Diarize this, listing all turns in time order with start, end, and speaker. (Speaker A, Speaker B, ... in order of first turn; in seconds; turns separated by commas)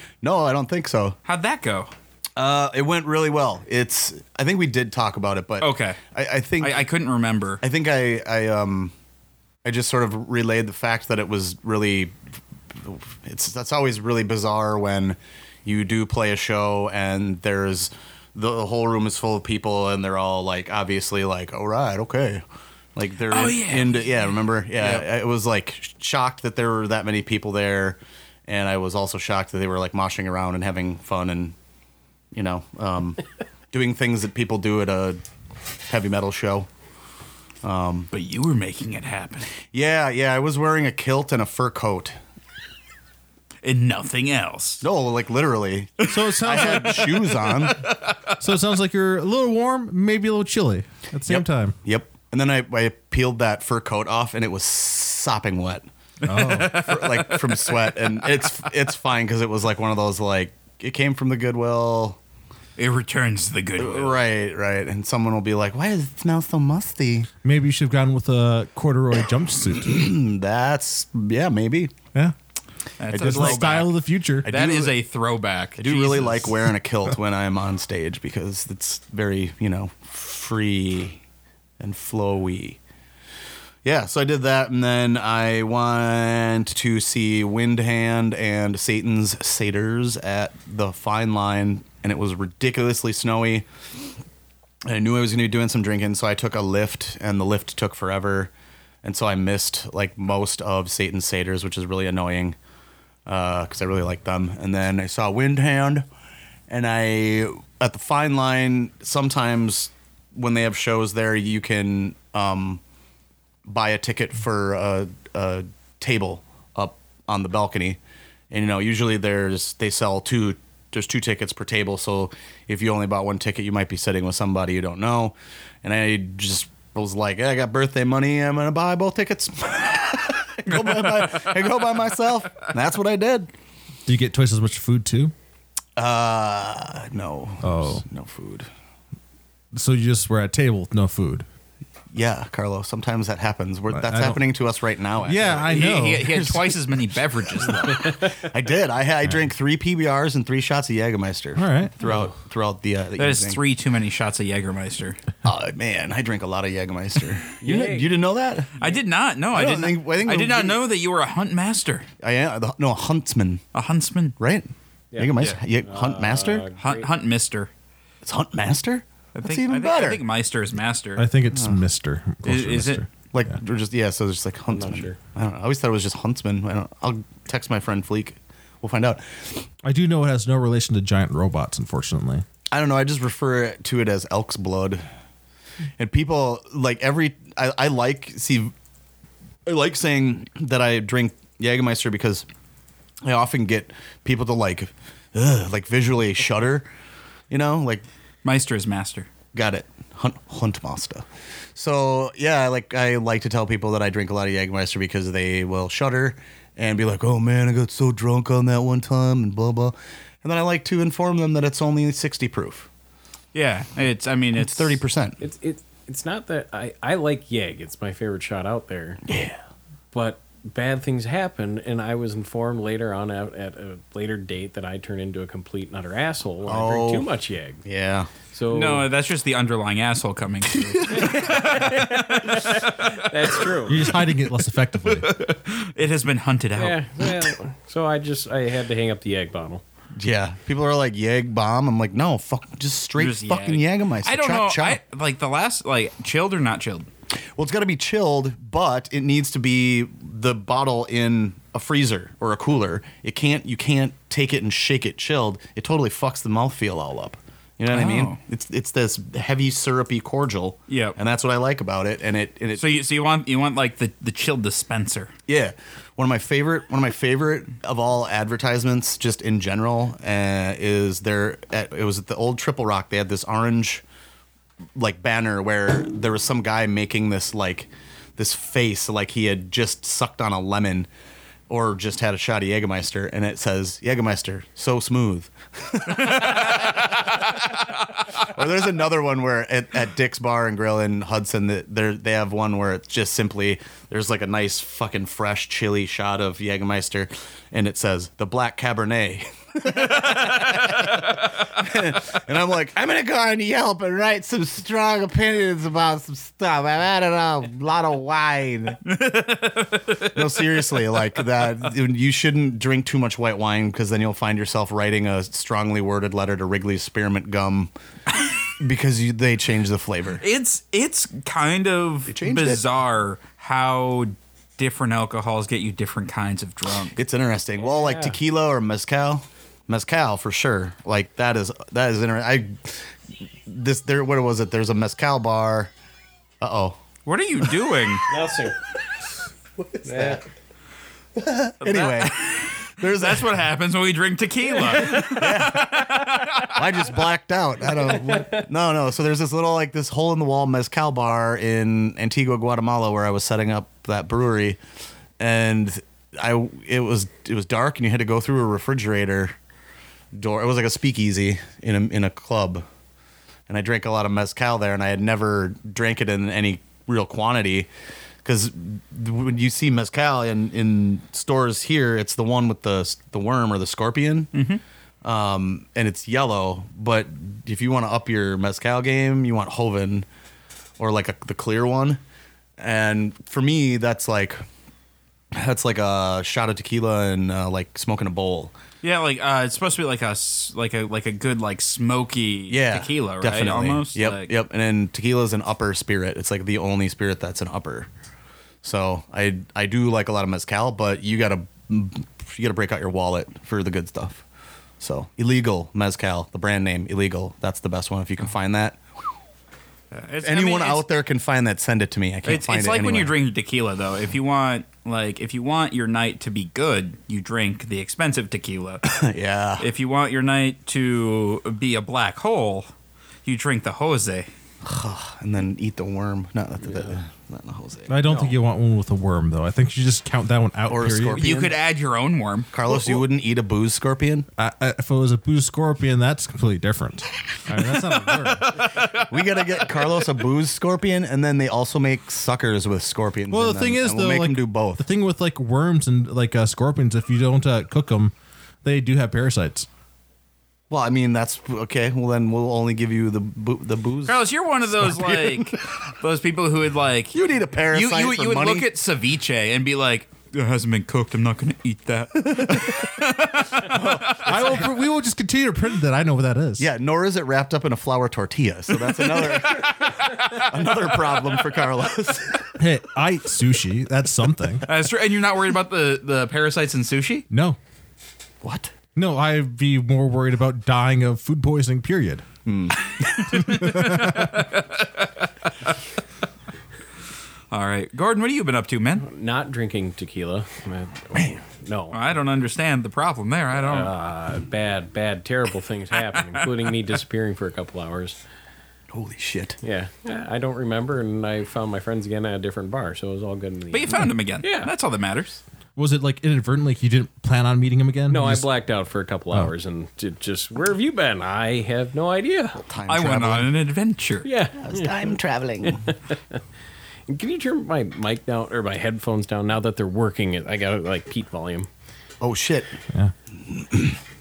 Speaker A: 0.2-1.2, Speaker B: 1.3-1.9, Speaker A: 2.4-6.9, Speaker B: 5.6-6.0, Speaker B: 6.6-7.6, Speaker A: 7.6-8.9, Speaker A: 9.6-12.1, Speaker A: 12.8-22.4, Speaker A: 22.9-31.6, Speaker B: 23.3-25.1, Speaker A: 32.3-35.2, Speaker A: 35.9-36.7, Speaker A: 37.6-38.1, Speaker B: 38.1-39.5, Speaker A: 39.7-42.2, Speaker B: 43.6-44.8, Speaker A: 44.8-47.8, Speaker C: 46.1-47.1, Speaker B: 46.5-48.4, Speaker C: 48.4-51.8, Speaker A: 51.3-62.2, Speaker B: 56.2-58.1, Speaker C: 56.2-57.0, Speaker B: 62.8-64.2, Speaker A: 63.8-67.3, Speaker C: 67.4-70.1, Speaker A: 69.8-71.9, Speaker B: 73.0-73.9, Speaker A: 73.1-73.9, Speaker C: 73.1-74.5, Speaker A: 74.4-74.9, Speaker B: 74.4-76.5, Speaker A: 75.8-81.2, Speaker A: 81.8-82.8, Speaker A: 83.8-93.7, Speaker A: 94.9-98.5, Speaker A: 99.0-102.6, Speaker A: 103.3-106.1, Speaker A: 106.7-112.8, Speaker A: 113.7-118.0, Speaker A: 118.5-133.5, Speaker B: 130.7-131.7, Speaker C: 134.1-135.3, Speaker A: 136.0-138.7, Speaker C: 137.6-138.0, Speaker C: 139.7-141.5, Speaker A: 142.1-146.8, Speaker C: 143.9-144.4, Speaker C: 145.2-146.4, Speaker B: 145.7-148.2, Speaker A: 147.6-153.6, Speaker C: 151.6-151.9, Speaker B: 153.2-155.2, Speaker A: 155.4-158.8, Speaker D: 157.6-158.2, Speaker B: 158.8-162.1, Speaker A: 159.5-160.8, Speaker A: 162.2-163.6, Speaker B: 163.7-164.4, Speaker A: 164.4-166.7, Speaker D: 165.1-167.1, Speaker B: 166.8-167.7, Speaker A: 168.2-170.2, Speaker B: 169.3-171.3, Speaker C: 171.2-173.1, Speaker A: 171.5-171.8, Speaker B: 172.4-173.0, Speaker A: 173.3-179.6, Speaker D: 174.7-175.2, Speaker C: 179.8-182.4, Speaker A: 182.7-185.0, Speaker A: 186.0-188.7, Speaker A: 189.7-192.5, Speaker A: 193.2-196.9, Speaker A: 197.5-198.1, Speaker B: 198.4-199.3, Speaker A: 199.5-212.9, Speaker B: 213.5-215.0, Speaker A: 214.6-215.4, Speaker D: 215.4-219.2, Speaker A: 219.3-219.6, Speaker D: 220.1-227.8, Speaker A: 226.7-227.3, Speaker A: 227.9-228.3, Speaker D: 228.5-229.1, Speaker B: 228.7-233.2, Speaker A: 231.0-231.7, Speaker D: 231.1-234.0, Speaker C: 233.8-235.3, Speaker B: 235.1-237.0, Speaker D: 236.8-239.8, Speaker A: 240.2-245.0, Speaker B: 243.2-247.1, Speaker A: 247.6-262.9, Speaker B: 257.9-258.4, Speaker B: 260.9-261.2, Speaker B: 262.8-265.3, Speaker A: 265.5-274.0, Speaker A: 275.0-281.1, Speaker A: 281.7-287.6, Speaker B: 286.1-287.8, Speaker A: 288.4-309.0, Speaker B: 299.9-301.3, Speaker B: 309.1-311.1, Speaker A: 310.3-317.9, Speaker A: 318.8-320.4, Speaker B: 320.4-327.2, Speaker A: 322.3-322.8, Speaker A: 327.1-333.1, Speaker D: 327.8-328.4, Speaker A: 333.7-335.9, Speaker A: 336.6-337.0, Speaker B: 337.3-338.2, Speaker D: 338.3-338.8, Speaker A: 339.8-340.4, Speaker D: 340.0-340.4, Speaker A: 341.4-343.6, Speaker B: 341.8-347.0, Speaker A: 345.0-354.8, Speaker D: 348.3-348.6, Speaker A: 355.4-359.6, Speaker A: 360.3-362.9, Speaker A: 363.7-367.9, Speaker A: 368.4-374.5, Speaker B: 374.5-374.8, Speaker A: 375.2-380.3, Speaker A: 381.0-382.2, Speaker A: 382.8-384.6, Speaker A: 385.5-388.7, Speaker B: 389.0-394.5, Speaker A: 392.7-398.1, Speaker A: 398.8-404.4, Speaker A: 405.0-409.0, Speaker B: 410.1-411.1, Speaker A: 410.4-413.3, Speaker B: 412.4-419.0, Speaker A: 419.1-419.9, Speaker B: 419.8-422.9, Speaker B: 423.4-424.5, Speaker A: 424.8-428.5, Speaker C: 428.1-431.5, Speaker A: 430.9-431.8, Speaker B: 431.3-433.2, Speaker A: 432.7-434.5, Speaker C: 434.6-438.8, Speaker B: 438.4-439.3, Speaker A: 439.1-445.1, Speaker C: 443.5-448.3, Speaker C: 448.8-449.9, Speaker A: 450.9-455.8, Speaker B: 454.3-464.8, Speaker A: 457.3-458.9, Speaker A: 462.5-463.1, Speaker A: 463.8-464.9, Speaker C: 464.4-466.9, Speaker A: 466.8-472.8, Speaker B: 469.3-471.4, Speaker C: 472.8-474.8, Speaker B: 474.9-477.5, Speaker C: 477.5-477.8, Speaker A: 478.6-478.9, Speaker C: 479.1-482.4, Speaker A: 482.7-483.7, Speaker B: 483.5-485.9, Speaker C: 483.6-484.6, Speaker B: 487.7-489.2, Speaker D: 489.2-492.2, Speaker B: 492.1-494.1, Speaker D: 493.7-498.4, Speaker A: 499.1-499.8, Speaker D: 499.8-504.9, Speaker B: 503.9-505.6, Speaker C: 506.0-508.7, Speaker D: 508.3-512.8, Speaker A: 512.8-513.7, Speaker B: 513.1-514.5, Speaker D: 514.4-516.6, Speaker A: 514.8-516.0, Speaker D: 517.3-521.9, Speaker A: 522.4-523.0, Speaker A: 523.7-524.2